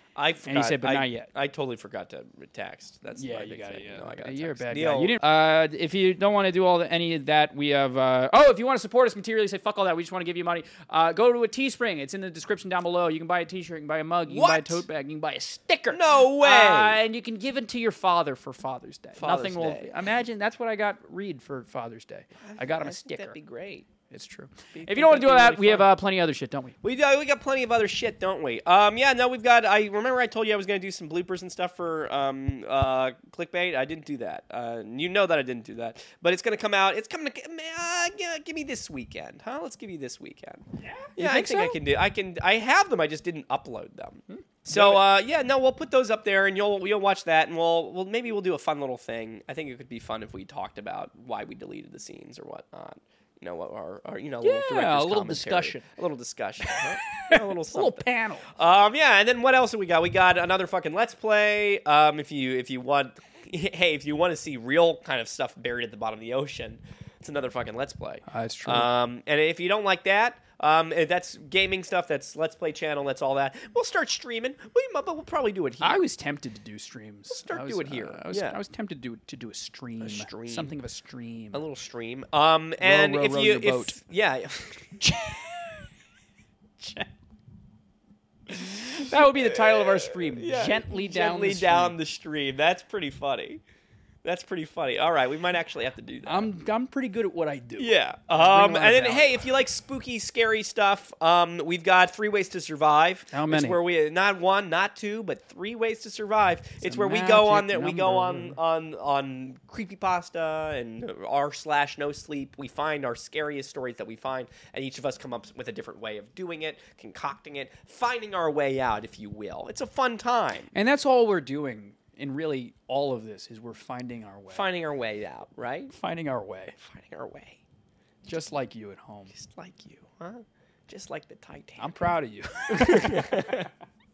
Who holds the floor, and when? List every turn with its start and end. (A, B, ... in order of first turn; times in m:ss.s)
0:00.2-0:05.2 A
0:00.5-0:01.3 B
0:03.2-0:23.4 B
0:14.3-0:14.8 A
0:15.9-0:17.0 A
0:19.2-0:19.9 A
0:22.4-0:23.9 A
0:24.1-0:26.8 B
0:24.7-0:25.9 A
0:26.8-0:40.7 A
0:40.8-0:41.8 B
0:41.2-1:16.0 A
0:44.3-0:45.0 B
0:54.4-0:55.9 B
0:56.6-0:58.5 B
1:08.3-1:08.9 B
1:15.8-1:21.6 B
1:17.3-1:18.6 A
1:20.0-1:20.7 A
1:21.5-1:25.0 A
1:22.8-1:24.0 B
1:25.0-1:25.9 B
1:26.8-1:27.1 B
1:28.5-1:32.0 B
1:29.1-1:33.6 A
1:34.2-1:36.5 A
1:36.2-1:39.6 B
1:37.8-2:00.7 A
1:43.3-1:43.8 B
1:46.8-1:48.6 B
2:00.7-2:04.7 B
2:04.5-2:05.9 A
2:05.9-2:06.8 B
2:06.8-2:07.6 A
2:08.3-2:09.3 B
2:09.3-2:11.9 A
2:11.8-2:13.7 B
2:12.7-2:13.7 A